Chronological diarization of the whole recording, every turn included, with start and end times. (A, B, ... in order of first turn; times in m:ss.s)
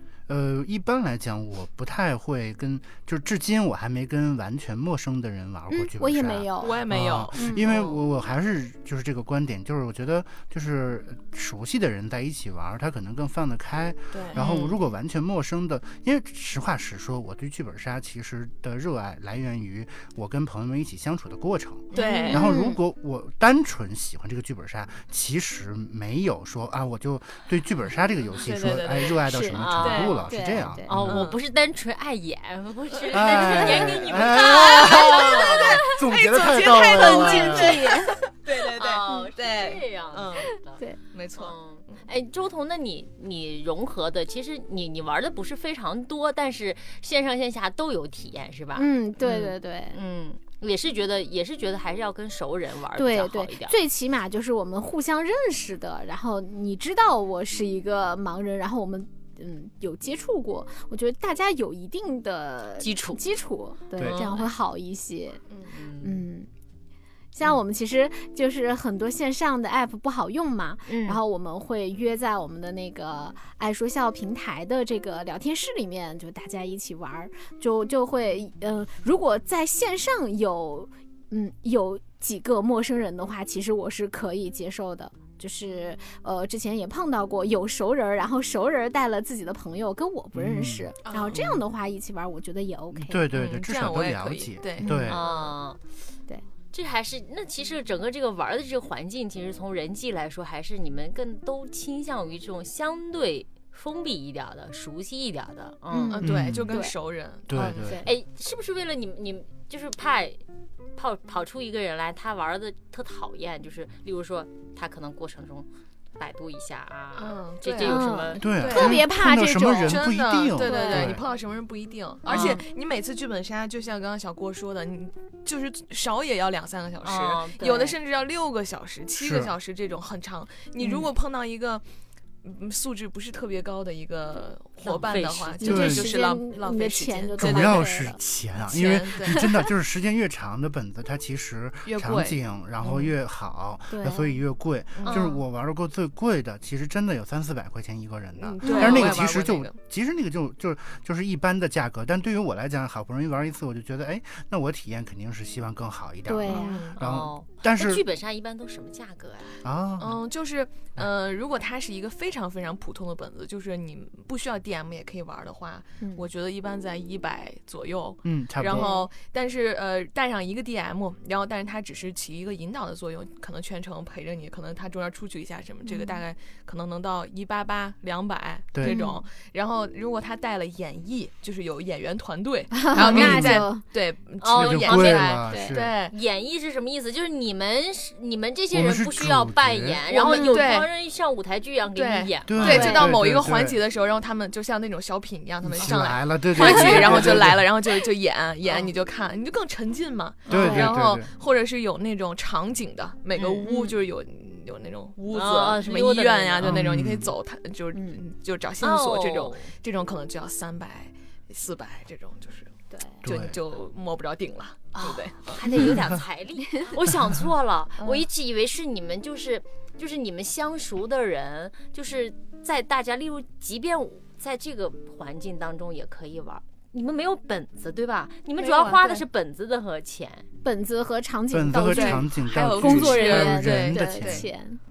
0:00.3-0:31.3 A
0:05.7-0:07.7 B
0:06.6-0:08.0 C
0:14.1-0:14.4 C
0:14.3-0:14.8 D
0:21.9-0:22.4 D
0:21.9-0:22.5 C
0:21.9-0:22.8 B
0:28.4-0:30.3 C
0:29.3-0:30.9 B
0:29.6-0:35.7 D
0:31.0-0:31.4 C
0:33.1-0:38.0 A
0:33.6-0:33.9 B
0:34.4-0:40.5 C
0:35.3-0:36.0 B
0:36.8-0:38.2 B
0:38.6-0:40.8 D
0:41.1-0:42.0 C
0:41.4-0:53.7 D
0:48.8-0:50.0 B
0:52.9-1:05.4 B
1:02.8-1:03.2 D
1:04.0-1:04.5 D
1:05.7-1:06.2 D
1:06.0-1:06.5 B
1:07.3-1:33.3 B
1:10.9-1:11.2 D
1:30.3-1:31.6 A
1:31.0-1:31.5 C
1:32.9-1:35.2 A
1:33.3-1:35.1 C
1:34.8-1:35.5 B
1:35.1-1:35.8 D
1:36.7-1:46.3 D
1:45.9-1:46.9 B
1:46.2-1:48.0 C
1:46.2-1:46.8 A
1:47.5-1:48.0 A
1:47.5-1:48.1 B
1:48.0-1:50.4 D
1:51.0-1:58.4 D
1:57.2-1:59.1 C
1:57.8-2:01.2 B
1:58.4-2:01.2 A
1:59.8-2:11.8 C
2:02.2-2:02.6 D
2:02.3-2:02.6 B
2:07.0-2:08.0 D
2:09.2-2:09.5 A
2:10.8-2:11.1 B
2:12.4-2:17.9 C
2:14.8-2:15.6 D
2:15.6-2:18.2 B
2:15.6-2:16.1 A
2:17.4-2:38.0 A
2:18.7-2:19.6 C
2:19.2-2:19.7 B
2:21.8-2:23.1 C
2:23.9-2:24.4 B
2:25.0-2:25.3 C
2:25.0-2:25.4 D
2:28.4-2:29.8 C
2:28.6-2:29.2 B
2:36.3-2:36.8 B
2:36.5-2:37.0 C
2:37.0-2:39.6 D
2:39.6-2:40.2 A
2:40.0-3:06.1 C
2:46.0-2:46.2 B
2:48.2-2:48.9 A
2:48.7-2:49.0 B
2:55.8-2:56.2 B
2:58.7-2:59.0 A
2:58.8-2:59.2 B
3:02.7-3:03.8 B
3:03.0-3:03.7 A
3:04.4-3:13.0 D
3:04.5-3:05.9 A
3:05.5-3:05.8 B
3:08.7-3:10.0 A
3:10.1-3:10.9 C
3:10.2-3:10.7 B
3:12.0-3:35.8 C
3:12.5-3:13.8 A
3:12.6-3:13.0 B
3:15.6-3:17.7 A
3:16.6-3:17.3 B
3:20.5-3:21.3 A
3:20.5-3:21.0 B
3:23.4-3:23.9 D
3:25.3-3:27.0 D
3:26.6-3:27.3 A
3:27.9-3:28.2 B
3:28.8-3:29.7 D
3:32.9-3:33.2 B
3:33.2-3:33.6 A
3:34.9-3:50.5 D
3:38.0-3:38.2 C
3:48.6-3:49.2 C
3:50.6-3:54.8 B
3:51.5-3:54.5 A
3:51.9-3:54.5 C